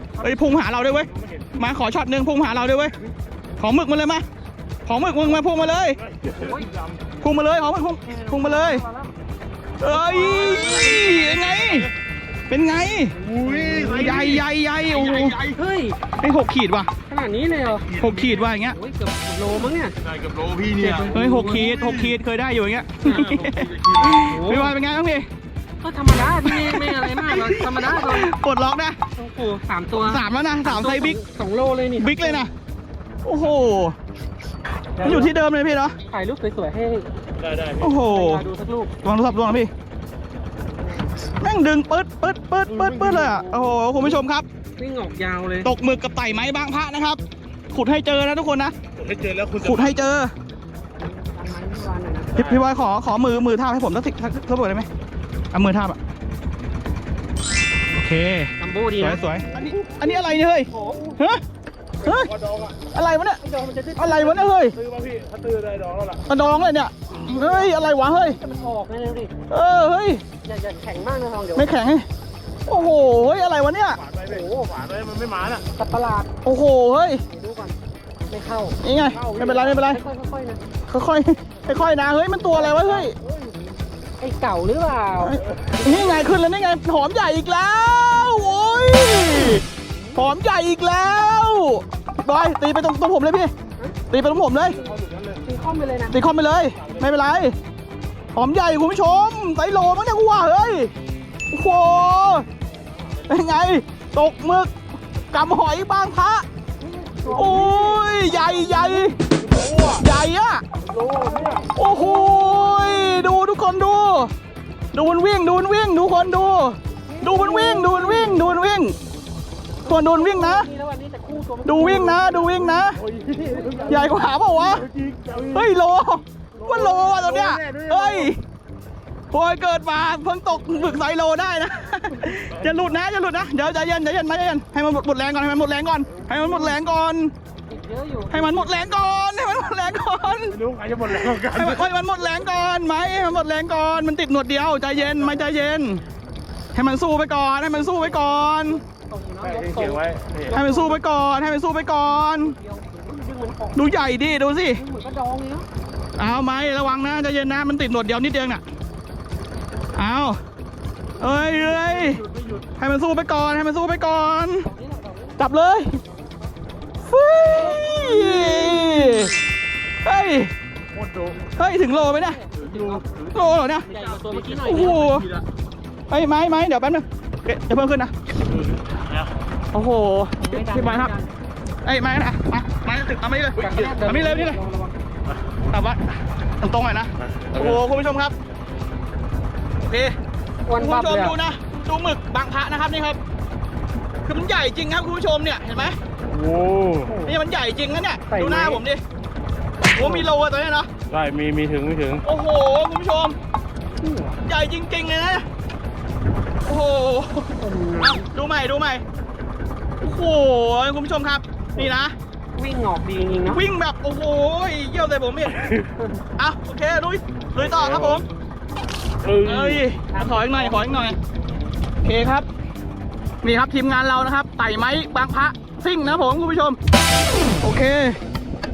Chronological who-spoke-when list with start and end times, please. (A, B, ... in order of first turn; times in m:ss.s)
0:00.2-0:02.9 A
0:01.0-0:01.6 B
0:03.6-0:04.2 A
0:04.8-0:06.0 A
0:05.9-0:07.0 B
0:06.3-0:06.7 C
0:07.2-0:08.8 A
0:08.0-0:09.1 C
0:09.8-0:11.9 A
0:09.9-0:11.2 C
0:10.1-0:11.9 B
0:12.5-0:13.1 A
0:13.2-0:15.6 B
0:13.2-0:14.2 C
0:13.7-0:15.4 A
0:15.5-0:16.0 C
0:16.2-0:16.9 A
0:17.1-0:17.9 C
0:17.9-0:18.5 B
0:18.0-0:18.8 A
0:18.6-0:19.9 C
0:20.0-0:22.2 B
0:20.8-0:21.9 C
0:21.1-0:25.3 A
0:23.0-0:23.4 C
0:23.0-0:24.3 B
0:24.2-0:24.8 C
0:25.8-0:28.3 C
0:26.4-0:29.0 A
0:29.2-0:32.5 C
0:30.0-0:31.2 A
0:32.0-0:32.5 A
0:33.2-0:34.0 A
0:35.0-0:35.3 C
0:35.0-0:36.0 A
0:36.1-0:37.2 C
0:37.4-0:37.9 B
0:37.8-0:38.4 A
0:37.9-0:38.9 C
0:39.0-0:39.7 A
0:40.7-0:41.3 C
0:41.4-0:44.4 A
0:42.7-0:43.4 B
0:43.2-0:44.2 C
0:44.8-0:45.7 C
0:45.6-0:48.8 A
0:48.9-0:50.1 B
0:49.6-0:50.3 A
0:51.0-0:52.4 C
0:52.3-0:52.7 B
0:52.4-0:54.9 A
0:55.5-0:56.0 A
0:57.9-1:01.4 A
0:58.6-1:01.2 C
1:02.0-1:02.3 A
1:02.0-1:02.8 B
1:02.9-1:03.4 A
1:03.4-1:04.5 C
1:04.0-1:04.8 A
1:04.7-1:06.3 B
1:06.3-1:08.4 A
1:07.1-1:09.3 C
1:09.5-1:10.2 A
1:10.4-1:11.7 C
1:11.5-1:12.1 A
1:12.7-1:14.0 A
1:13.9-1:15.6 B
1:14.2-1:14.7 C
1:15.8-1:16.3 C
1:16.4-1:17.2 A
1:17.3-1:17.8 C
1:18.3-1:20.6 C
1:18.8-1:20.0 A
1:20.9-1:23.1 A
1:22.5-1:23.2 C
1:22.5-1:23.6 B
1:24.2-1:25.4 C
1:25.2-1:29.6 A
1:25.4-1:26.0 B
1:28.5-1:30.3 C
1:30.1-1:33.5 A
1:34.1-1:34.8 A
1:34.6-1:36.2 C
1:34.7-1:35.4 B
1:36.1-1:37.6 A
1:36.7-1:37.2 B
1:38.3-1:40.9 A
1:41.5-1:42.5 A
1:42.7-1:43.4 B
1:43.3-1:44.7 A
1:45.3-1:46.4 A
1:46.8-1:49.2 C
1:47.3-1:49.1 A
1:49.3-1:50.0 B
1:49.9-1:50.6 A
1:50.8-1:51.7 B
1:51.1-1:53.3 C
1:51.8-1:54.3 A
1:54.9-1:59.0 A
1:57.1-1:58.5 C
1:59.8-2:04.3 C
1:59.9-2:00.7 A
2:01.6-2:03.0 A
2:02.8-2:05.7 B
2:03.9-2:04.9 A
2:05.5-2:08.4 A
2:06.6-2:08.3 B
2:09.3-2:17.3 A
2:10.5-2:11.0 C
2:12.3-2:13.0 B
2:16.2-2:16.7 C
2:17.6-2:19.0 C
2:18.3-2:20.6 A
2:20.5-2:21.9 B
2:21.2-2:26.0 A
2:26.7-2:28.8 A
2:27.7-2:31.0 C
2:29.4-2:30.6 B
2:30.5-2:32.6 A
2:32.4-2:33.9 C
2:33.8-2:34.8 A
2:34.7-2:35.7 C
2:36.2-2:38.6 A
2:40.0-2:40.4 A
2:41.2-2:42.2 A
2:41.2-2:42.7 B
2:42.8-2:44.7 A
2:44.6-2:46.5 C
2:45.4-2:46.0 A
2:47.1-2:49.3 A
2:47.4-2:49.4 C
2:50.0-2:50.5 A
2:50.9-2:51.5 B
2:51.6-2:52.4 A
2:51.6-2:53.1 C
2:52.5-2:55.4 B
2:53.3-2:53.9 A
2:53.8-2:55.2 C
2:54.6-2:55.3 A
2:56.1-2:58.1 A
2:58.4-2:59.3 B
2:59.7-3:01.1 A
3:00.4-3:01.3 C
3:01.8-3:04.6 A
3:03.6-3:05.0 C
3:05.2-3:05.6 B
3:05.7-3:08.3 A
3:07.2-3:07.8 B
3:09.8-3:10.2 A
3:10.7-3:11.4 C
3:10.8-3:13.2 A
3:14.2-3:16.0 A
3:16.2-3:17.2 B
3:17.0-3:17.4 C
3:17.2-3:19.0 A
3:18.3-3:18.8 C
3:19.9-3:20.9 A
3:20.0-3:20.3 C
3:21.1-3:22.2 B
3:22.2-3:23.4 A
3:24.0-3:24.4 C
3:24.4-3:25.5 A
3:26.6-3:29.0 A
3:27.6-3:28.3 C
3:30.0-3:32.1 A
3:32.5-3:33.6 C
3:33.5-3:35.7 A
3:35.5-3:35.9 B
3:36.4-3:38.2 A
3:37.6-3:38.2 B
3:39.2-3:40.6 B
3:39.4-3:41.2 A
3:40.1-3:41.2 C
3:42.0-3:42.5 A
3:43.4-3:46.8 A
3:47.2-3:47.8 B
3:47.5-3:48.2 A